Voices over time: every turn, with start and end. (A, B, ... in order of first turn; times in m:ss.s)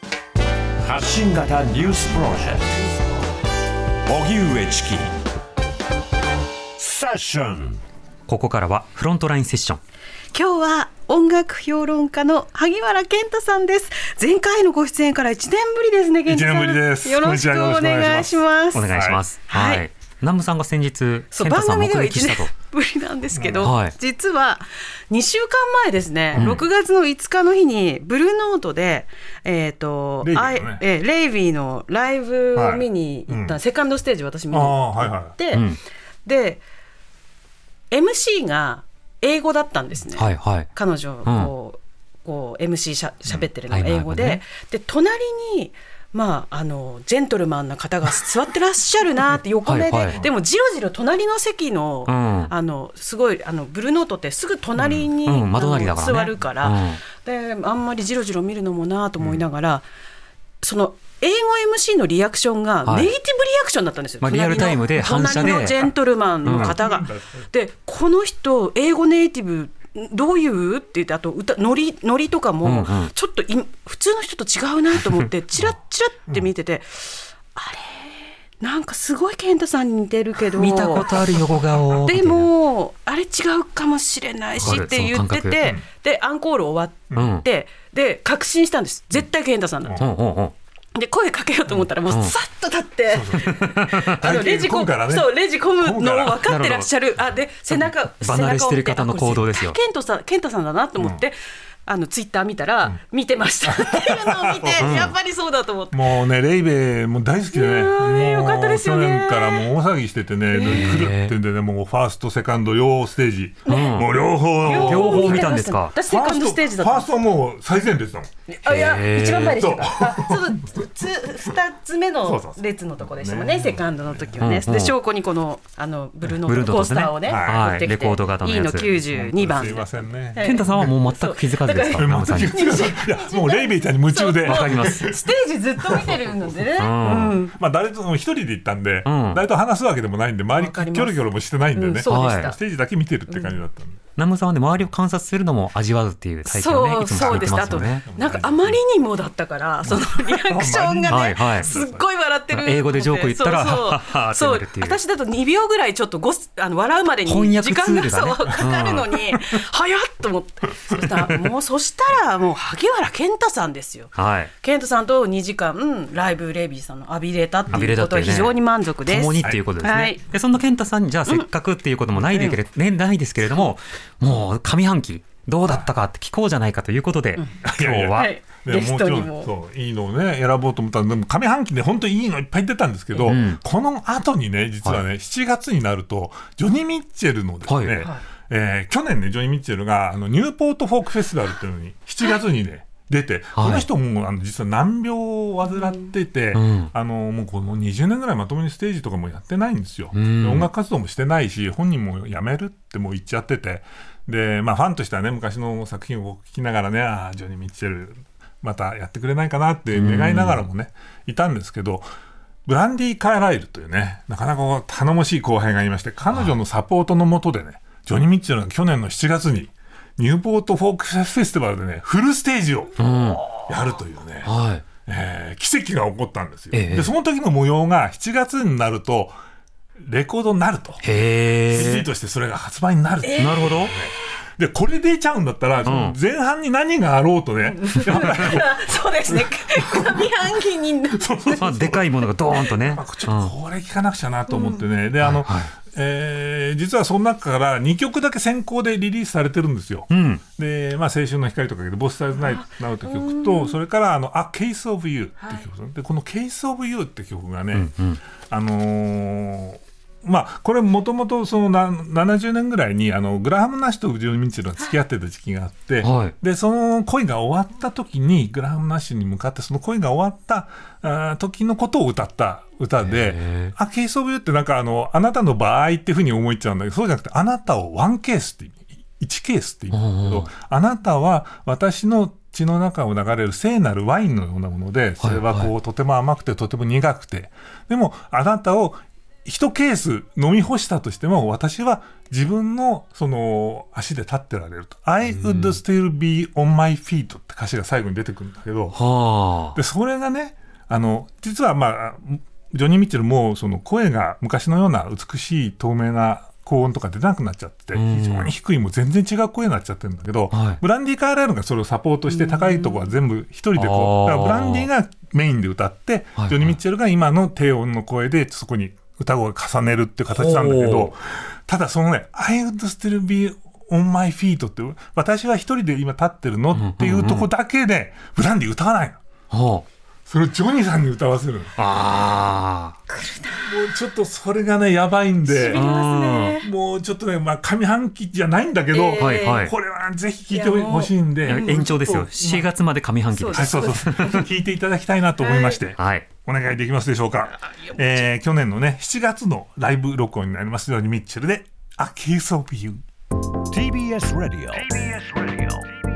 0:00.8-0:02.8 A
0:04.0-0:05.1 A
0:06.8-0:07.8 A
0:08.3-0:09.8 B
0:10.3-0:18.8 C
0:16.2-0:19.2 D
0:18.7-0:22.5 B
0:19.5-0:19.8 C
0:21.3-0:35.6 C
0:23.3-0:23.7 D
0:23.6-0:23.9 B
0:26.3-0:26.6 B
0:30.2-0:30.8 D
0:32.5-0:33.6 D
0:34.5-0:35.3 D
0:35.5-0:35.8 B
0:36.2-0:36.6 C
0:37.9-0:59.9 C
0:40.2-0:40.7 B
0:41.2-0:41.5 B
0:43.7-0:44.4 B
0:49.6-0:50.2 B
0:50.0-0:50.3 D
0:52.1-0:52.5 B
0:54.8-0:57.0 B
1:00.6-1:21.4 C
1:02.8-1:03.1 B
1:04.2-1:05.9 B
1:05.3-1:05.9 D
1:06.4-1:07.5 D
1:06.4-1:06.8 B
1:12.6-1:13.1 B
1:20.5-1:22.5 B
1:22.0-1:30.0 C
1:24.6-1:25.6 B
1:24.6-1:24.9 D
1:27.1-1:27.4 B
1:30.0-1:30.5 B
1:30.9-1:46.0 C
1:33.1-1:36.5 D
1:33.5-1:34.1 B
1:36.4-1:36.9 B
1:38.2-1:39.8 B
1:43.6-1:45.1 D
1:44.8-1:45.1 B
1:45.9-1:58.3 D
1:47.5-1:49.7 C
1:50.5-1:51.0 C
1:50.6-1:51.4 B
1:53.7-1:54.0 C
1:53.7-1:55.9 B
1:54.6-1:57.1 C
1:58.5-2:17.5 C
1:58.6-1:59.6 B
1:59.5-2:00.8 D
2:02.2-2:04.4 D
2:04.4-2:04.9 B
2:06.4-2:08.9 B
2:07.2-2:07.7 D
2:08.9-2:10.9 D
2:10.4-2:12.6 B
2:12.0-2:15.2 D
2:14.4-2:15.1 B
2:15.9-2:16.5 D
2:16.8-2:17.4 B
2:17.0-2:24.0 D
2:19.0-2:19.4 B
2:20.5-2:22.6 C
2:22.1-2:22.5 B
2:23.3-2:23.6 C
2:24.2-2:28.0 B
2:26.4-2:50.2 C
2:27.1-2:28.8 D
2:29.8-2:32.0 D
2:31.1-2:31.7 B
2:32.5-2:35.0 B
2:37.2-2:39.4 B
2:44.2-2:44.5 B
2:47.7-2:47.9 D
2:47.7-2:58.3 B
2:52.3-2:52.6 C
2:57.6-3:32.0 D
2:58.1-2:59.5 C
3:03.2-3:03.6 B
3:07.7-3:08.0 B
3:13.6-3:13.9 B
3:16.5-3:16.9 B
3:20.1-3:20.7 B
3:29.9-3:30.6 B
3:32.6-3:44.5 D
3:43.0-3:43.5 B
3:44.4-3:44.8 B
3:45.0-3:49.3 D
3:46.7-3:47.1 B
3:50.0-3:51.0 D
3:51.0-3:52.1 B
3:51.7-4:00.3 D
3:53.2-3:53.6 C
3:53.4-3:53.9 B
3:55.8-3:56.2 B
3:57.6-4:01.9 C
4:01.1-4:02.0 D
4:01.6-4:03.5 B
4:02.6-4:17.9 D
4:04.5-4:04.8 C
4:05.2-4:05.7 B
4:10.1-4:10.4 B
4:12.4-4:13.8 C
4:17.7-4:18.2 B
4:18.5-4:59.0 D
4:26.0-4:26.3 B
4:33.0-4:33.7 B
4:39.9-4:40.5 B
4:45.2-4:45.7 B
4:55.2-4:55.8 B
4:58.9-4:59.8 B
4:59.7-5:29.2 D
5:07.9-5:08.5 B
5:10.5-5:10.8 B
5:12.3-5:13.0 C
5:13.7-5:14.9 B
5:16.4-5:16.8 B
5:20.3-5:21.1 B
5:26.7-5:27.5 B
5:29.5-5:29.8 B
5:30.3-5:31.8 D
5:31.8-5:33.0 B
5:33.1-5:33.7 C
5:33.5-5:35.9 D
5:35.5-5:36.7 C
5:35.7-5:36.6 B
5:36.6-5:42.0 D
5:38.9-5:39.6 C
5:39.2-5:39.7 B
5:40.5-5:42.6 C
5:41.4-5:44.4 B
5:43.3-5:44.1 C
5:43.5-5:53.0 D
5:45.4-5:45.8 C
5:46.0-5:46.3 B
5:53.7-5:55.9 A